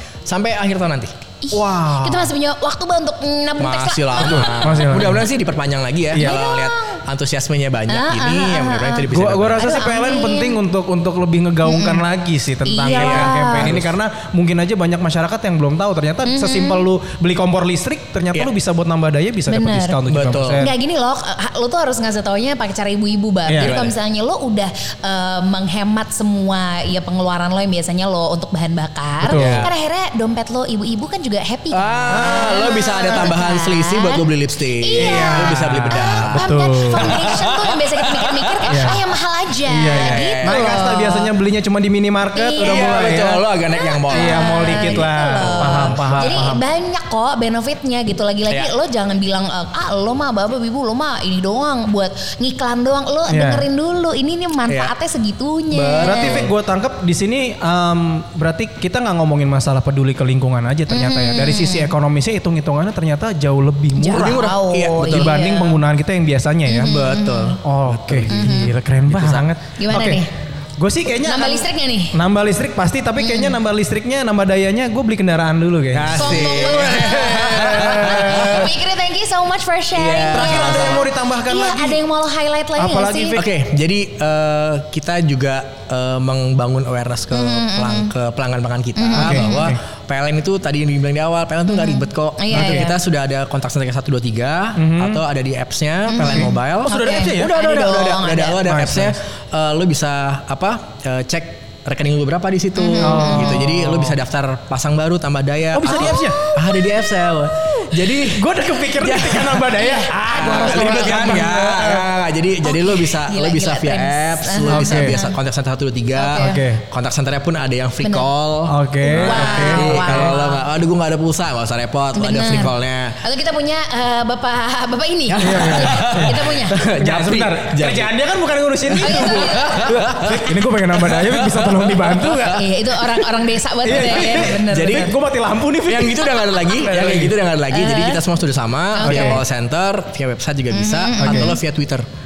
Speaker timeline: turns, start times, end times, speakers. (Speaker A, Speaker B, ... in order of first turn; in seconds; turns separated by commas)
Speaker A: 0.3-1.1, Speaker B: 1.4-5.0, Speaker C: 1.5-2.3, Speaker A: 3.6-9.8, Speaker C: 4.2-5.2, Speaker C: 6.1-6.4, Speaker B: 6.1-7.0, Speaker B: 7.9-10.6, Speaker C: 9.1-20.7, Speaker B: 11.6-12.0, Speaker B: 12.6-13.7, Speaker A: 12.9-13.9, Speaker B: 16.2-16.8, Speaker B: 19.5-20.0, Speaker A: 20.1-20.7, Speaker B: 20.6-34.2, Speaker C: 23.5-23.7, Speaker A: 23.6-23.9, Speaker C: 29.2-29.7, Speaker A: 29.3-29.7, Speaker A: 31.7-39.0, Speaker C: 32.1-32.5, Speaker B: 34.8-41.3, Speaker C: 35.0-37.2, Speaker C: 38.7-39.0, Speaker C: 39.7-43.4, Speaker A: 39.9-40.8, Speaker B: 42.3-43.0, Speaker A: 42.6-46.5, Speaker B: 43.7-56.4, Speaker C: 44.1-46.6, Speaker C: 53.3-53.6, Speaker A: 55.7-56.5, Speaker C: 56.0-64.4, Speaker B: 60.9-61.9, Speaker B: 64.0-65.8, Speaker A: 64.1-65.4, Speaker C: 65.0-66.9, Speaker B: 66.7-67.6, Speaker A: 66.8-69.5, Speaker C: 67.6-70.2, Speaker B: 68.3-68.7, Speaker B: 69.8-70.3, Speaker C: 70.8-78.7, Speaker B: 71.2-72.2, Speaker B: 73.2-73.5, Speaker A: 75.9-78.7, Speaker B: 76.1-83.4, Speaker A: 79.9-81.0, Speaker C: 80.3-82.0, Speaker C: 82.8-83.5, Speaker A: 83.3-123.2, Speaker B: 87.3-88.1, Speaker B: 89.0-89.7, Speaker C: 89.2-89.8, Speaker B: 91.7-93.0, Speaker C: 92.5-92.9, Speaker C: 94.8-95.2, Speaker B: 96.1-98.6, Speaker C: 96.2-97.5, Speaker C: 98.6-99.1, Speaker B: 102.8-103.6, Speaker C: 103.0-104.2, Speaker C: 105.7-106.4, Speaker B: 106.0-107.9, Speaker C: 108.2-112.1, Speaker B: 109.7-111.4, Speaker B: 112.6-115.3, Speaker C: 114.7-115.2, Speaker B: 116.2-116.6, Speaker C: 116.3-116.8, Speaker C: 118.7-120.3, Speaker B: 119.0-120.6, Speaker B: 122.2-126.8, Speaker C: 125.3-132.7, Speaker A: 125.4-128.1, Speaker B: 129.0-129.8, Speaker A: 129.0-132.6, Speaker B: 132.5-135.1, Speaker C: 133.8-137.3, Speaker A: 134.0-135.2, Speaker A: 135.8-142.1, Speaker B: 137.7-138.2, Speaker B: 138.9-139.4, Speaker C: 139.0-139.4, Speaker B: 140.7-141.6, Speaker C: 141.2-141.5